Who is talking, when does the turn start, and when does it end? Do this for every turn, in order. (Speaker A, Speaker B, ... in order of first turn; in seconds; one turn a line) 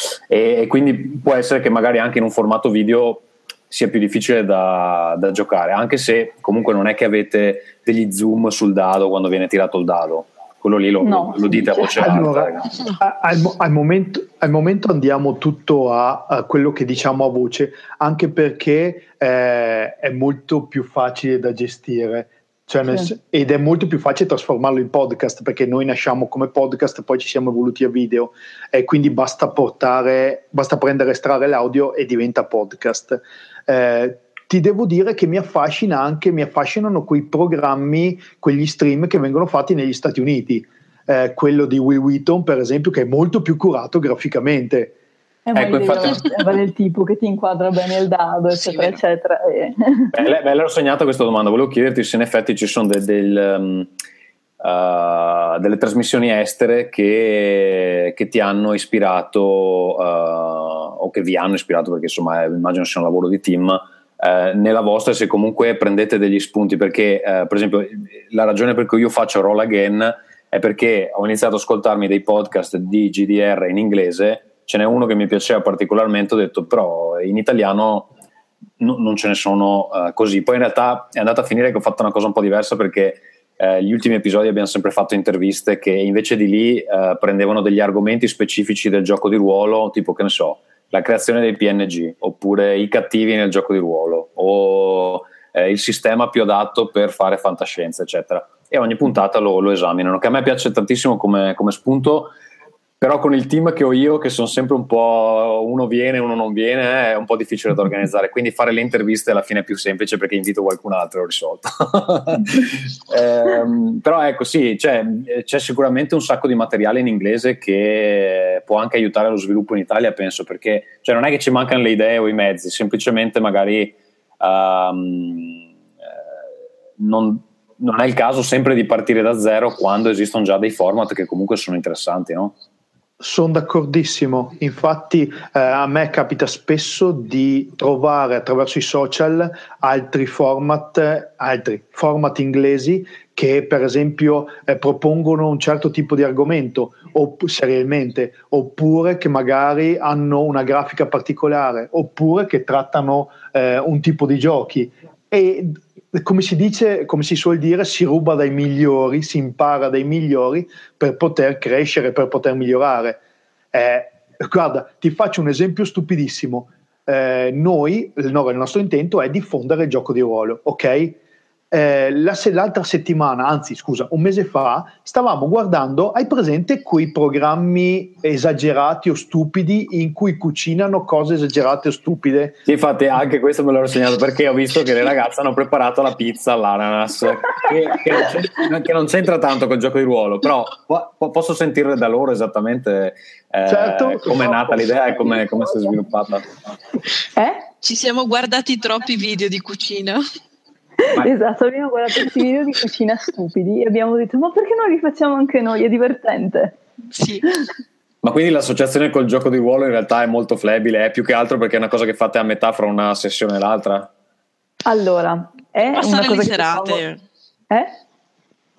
Speaker A: 0.3-12.7
Speaker B: 11.0-12.1
Speaker C: 12.0-44.9
Speaker B: 45.5-50.1
Speaker A: 45.5-46.3
Speaker D: 48.6-49.0
Speaker A: 50.1-53.9
Speaker A: 54.6-78.1
Speaker A: 78.8-102.3
Speaker A: 103.0-125.6
Speaker A: 127.0-132.5
Speaker C: 133.2-163.2
Speaker C: 163.7-171.2
Speaker C: 171.7-182.6
Speaker A: 182.7-196.4
Speaker C: 193.7-195.4
Speaker B: 197.3-197.7
Speaker D: 197.8-200.2
Speaker B: 201.0-206.8
Speaker D: 207.1-207.5
Speaker A: 208.2-214.1
Speaker B: 214.8-217.0
Speaker D: 215.8-217.2